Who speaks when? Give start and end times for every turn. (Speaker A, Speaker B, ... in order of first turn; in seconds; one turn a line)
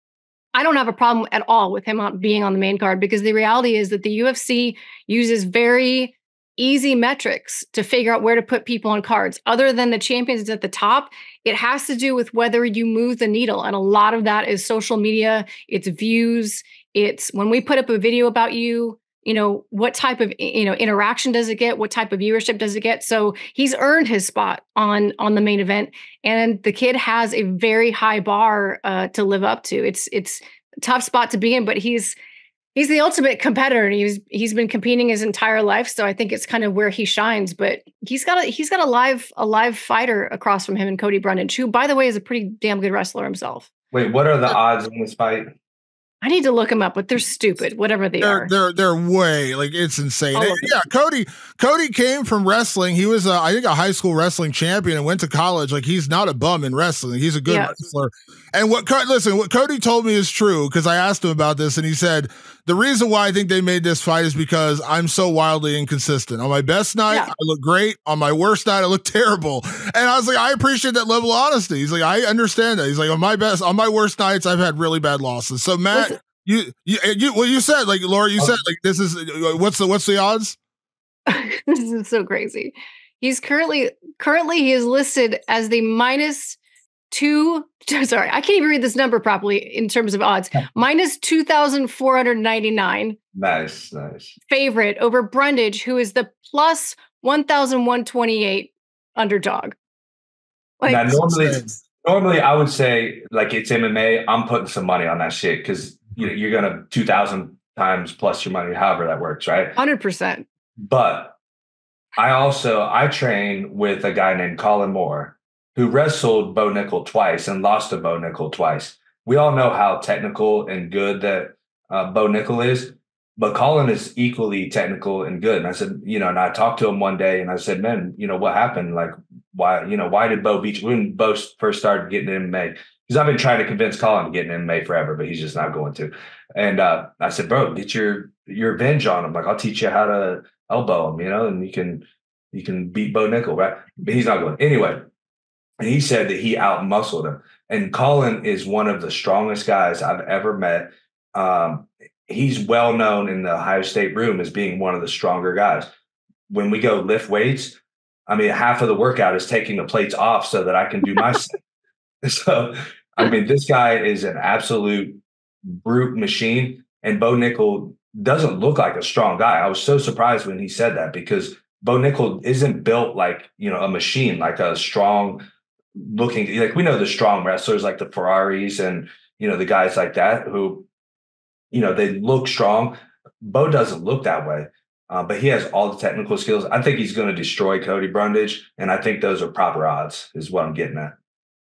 Speaker A: 0.6-32.1
Speaker A: 32.7-43.7
Speaker B: 43.9-45.5
Speaker A: 46.2-48.5
Speaker C: 48.2-80.6
Speaker A: 50.3-50.7
Speaker A: 57.5-57.7
Speaker A: 81.3-86.6
Speaker A: 87.1-93.2
Speaker B: 93.3-94.4
Speaker A: 94.5-99.8
Speaker A: 100.8-101.2
Speaker B: 100.9-109.7
Speaker C: 101.1-101.8
Speaker A: 109.8-110.5
Speaker B: 110.8-111.4
Speaker B: 112.2-145.1
Speaker B: 145.8-155.9
Speaker B: 156.5-161.6
Speaker B: 162.2-175.4
Speaker B: 175.9-180.9
Speaker B: 181.7-191.1